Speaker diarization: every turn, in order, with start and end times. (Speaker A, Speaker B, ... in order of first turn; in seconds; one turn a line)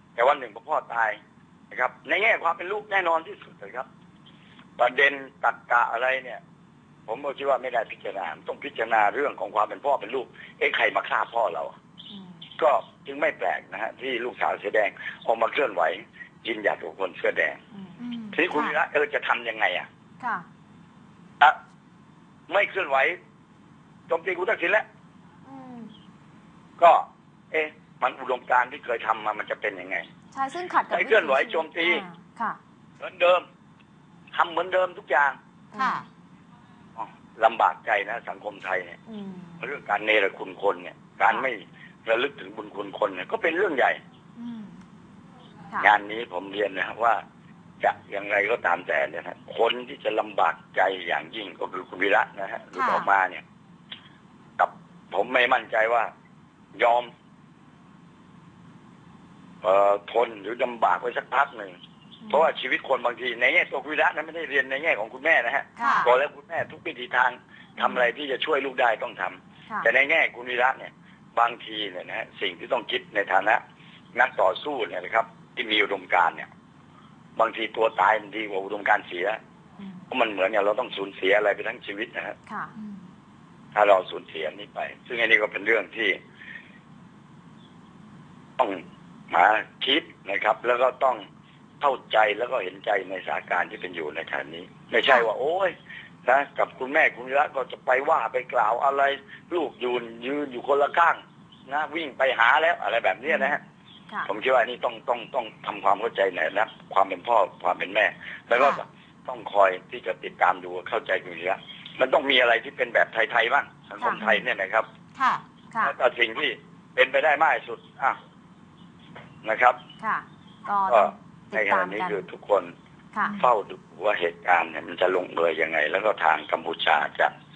Speaker A: 0.1-3.9
Speaker A: 4.8-6.4
Speaker A: 7.1-11.8
Speaker B: 12.1-12.4
Speaker A: 12.6-17.6
Speaker B: 17.7-18.0
Speaker C: 18.0-18.6
Speaker A: 18.3-19.9
Speaker B: 20.2-20.5
Speaker A: 22.5-23.2
Speaker A: 24.1-24.8
Speaker B: 25.4-25.9
Speaker A: 26.8-30.1
Speaker B: 30.3-32.6
Speaker A: 30.9-32.0
Speaker A: 33.0-33.5
Speaker A: 34.3-35.4
Speaker B: 35.7-36.0
Speaker C: 35.8-36.1
Speaker A: 37.0-39.0
Speaker B: 39.1-39.6
Speaker A: 39.6-44.0
Speaker C: 44.4-44.8
Speaker A: 45.8-47.2
Speaker A: 47.8-53.4
Speaker C: 52.7-53.1
Speaker A: 54.6-56.1
Speaker A: 56.7-57.1
Speaker A: 59.6-61.8
Speaker B: 62.2-62.5
Speaker A: 62.3-73.6
Speaker B: 65.8-66.1
Speaker C: 65.8-66.1
Speaker A: 74.1-76.5
Speaker A: 77.3-79.4
Speaker A: 80.1-82.4
Speaker B: 82.5-82.7
Speaker C: 82.8-83.0
Speaker A: 83.7-86.2
Speaker A: 88.6-91.2
Speaker A: 91.8-95.7
Speaker A: 96.2-103.6
Speaker A: 104.2-114.9
Speaker B: 114.0-114.4
Speaker C: 115.1-115.4
Speaker A: 115.8-118.2
Speaker A: 119.4-119.8
Speaker B: 120.0-122.2
Speaker A: 120.9-122.7
Speaker B: 123.1-123.4
Speaker A: 123.4-127.3